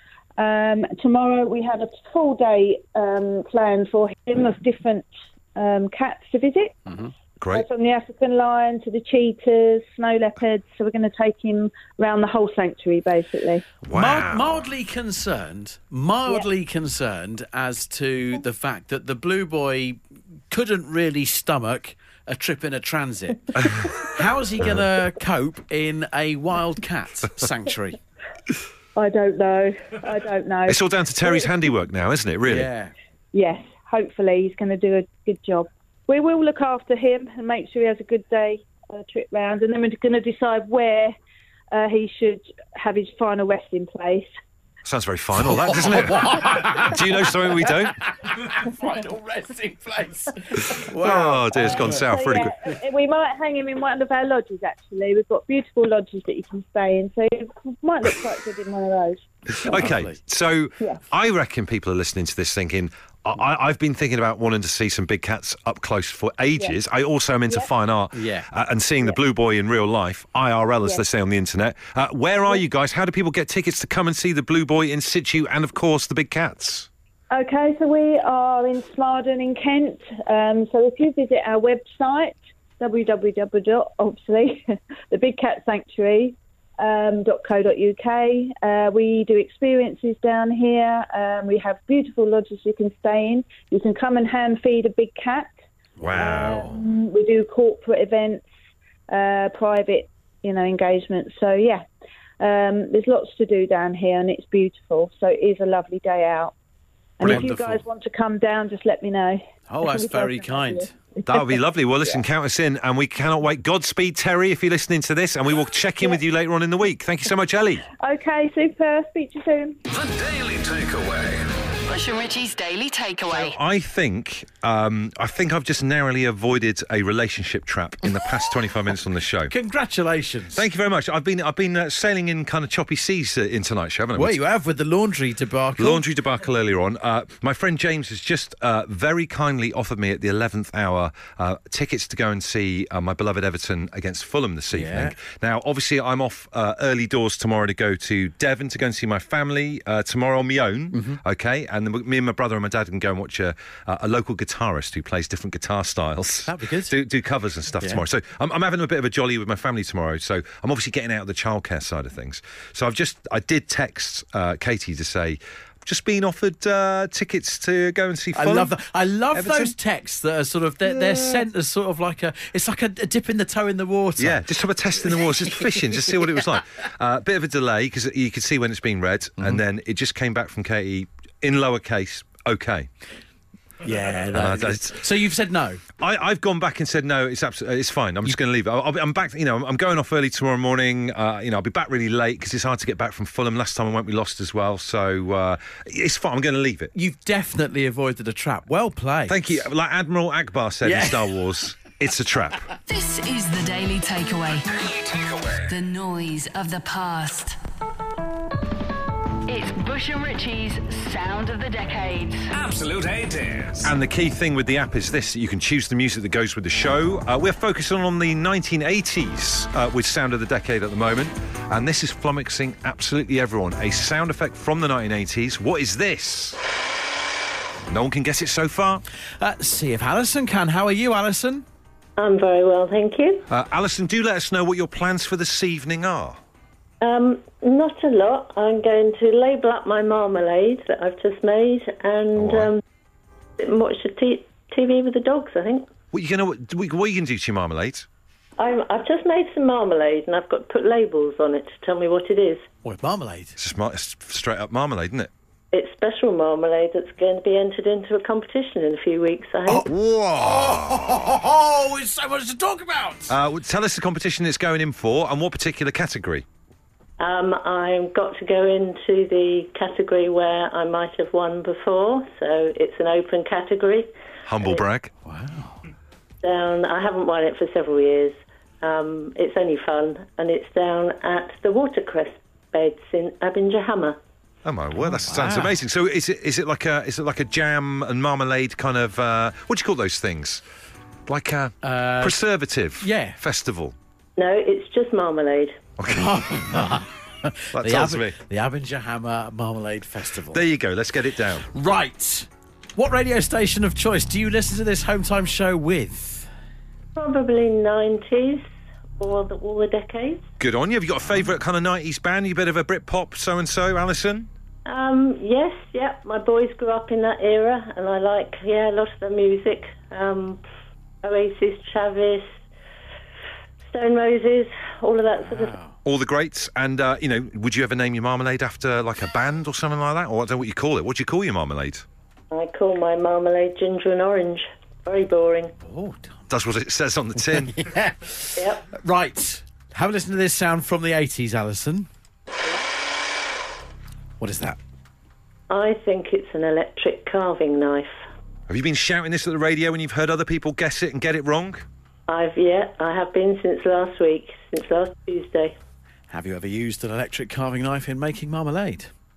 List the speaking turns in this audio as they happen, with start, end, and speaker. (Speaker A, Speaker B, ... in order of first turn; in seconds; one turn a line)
Speaker A: 0.4-6.8
Speaker B: 7.4-7.7
Speaker A: 7.5-13.6
Speaker B: 13.8-14.7
Speaker C: 13.9-28.0
Speaker B: 23.6-23.9
Speaker A: 28.9-31.5
Speaker B: 30.7-32.7
Speaker C: 32.5-32.9
Speaker A: 33.3-41.1
Speaker A: 41.7-44.3
Speaker B: 44.8-48.0
Speaker C: 45.4-52.0
Speaker B: 50.9-52.5
Speaker A: 51.6-59.8
Speaker B: 59.6-76.9
Speaker C: 59.6-60.2
Speaker C: 68.1-68.5
Speaker A: 77.3-95.5
Speaker C: 96.0-96.5
Speaker B: 96.0-96.8
Speaker A: 96.1-98.4
Speaker A: 99.1-101.8
Speaker A: 102.4-106.5
Speaker A: 107.2-112.2
Speaker B: 107.2-107.6
Speaker C: 107.2-107.8
Speaker C: 109.7-110.9
Speaker B: 111.2-117.8
Speaker A: 118.0-119.8
Speaker D: 119.9-121.5
Speaker E: 121.8-123.6
Speaker B: 123.3-129.5
Speaker C: 129.5-130.6
Speaker B: 130.5-134.4
Speaker C: 134.1-136.0
Speaker B: 135.8-168.7
Speaker C: 144.7-145.2
Speaker C: 150.9-151.2
Speaker C: 156.5-156.9
Speaker C: 168.3-174.4
Speaker B: 169.3-169.7
Speaker B: 170.8-171.4
Speaker B: 174.2-182.9
Speaker C: 175.1-175.9
Speaker C: 183.8-185.8
Speaker B: 184.3-185.0
Speaker B: 186.0-196.9
Speaker C: 196.9-199.6
Speaker B: 199.3-202.7
Speaker C: 200.8-201.3
Speaker E: 202.9-204.6
Speaker D: 204.7-205.7
Speaker E: 205.7-207.6
Speaker E: 209.4-212.5
Speaker D: 212.5-213.9
Speaker B: 213.8-226.6
Speaker B: 227.9-229.0
Speaker C: 229.4-231.6
Speaker F: 232.2-233.5
Speaker B: 233.5-236.4
Speaker F: 237.0-242.8
Speaker B: 242.3-242.7
Speaker F: 243.6-245.9
Speaker B: 246.1-248.1
Speaker F: 248.6-252.7
Speaker C: 252.8-253.6
Speaker B: 253.6-255.3
Speaker F: 255.7-259.9
Speaker C: 259.7-263.3
Speaker B: 259.8-261.2
Speaker B: 263.3-266.4
Speaker F: 267.2-274.1
Speaker B: 274.4-275.1
Speaker C: 275.2-275.8
Speaker F: 276.4-284.2
Speaker B: 284.6-290.6
Speaker C: 285.0-285.8
Speaker B: 291.3-293.9
Speaker C: 291.8-292.4
Speaker C: 293.0-293.4
Speaker F: 294.4-295.8
Speaker B: 296.0-296.4
Speaker C: 296.1-300.6
Speaker B: 297.7-298.4
Speaker B: 300.5-301.7
Speaker C: 301.7-306.5
Speaker F: 307.1-308.6
Speaker F: 309.2-310.4
Speaker B: 310.6-314.5
Speaker F: 314.9-320.6
Speaker F: 321.2-322.5
Speaker F: 323.9-325.7
Speaker C: 325.4-326.0
Speaker B: 326.0-332.0
Speaker F: 332.5-335.7
Speaker C: 335.8-336.4
Speaker B: 336.5-337.8
Speaker C: 337.4-342.1
Speaker F: 338.6-338.8
Speaker C: 344.4-344.8
Speaker F: 345.7-348.2
Speaker B: 348.7-351.9
Speaker F: 352.3-355.8
Speaker C: 356.3-359.1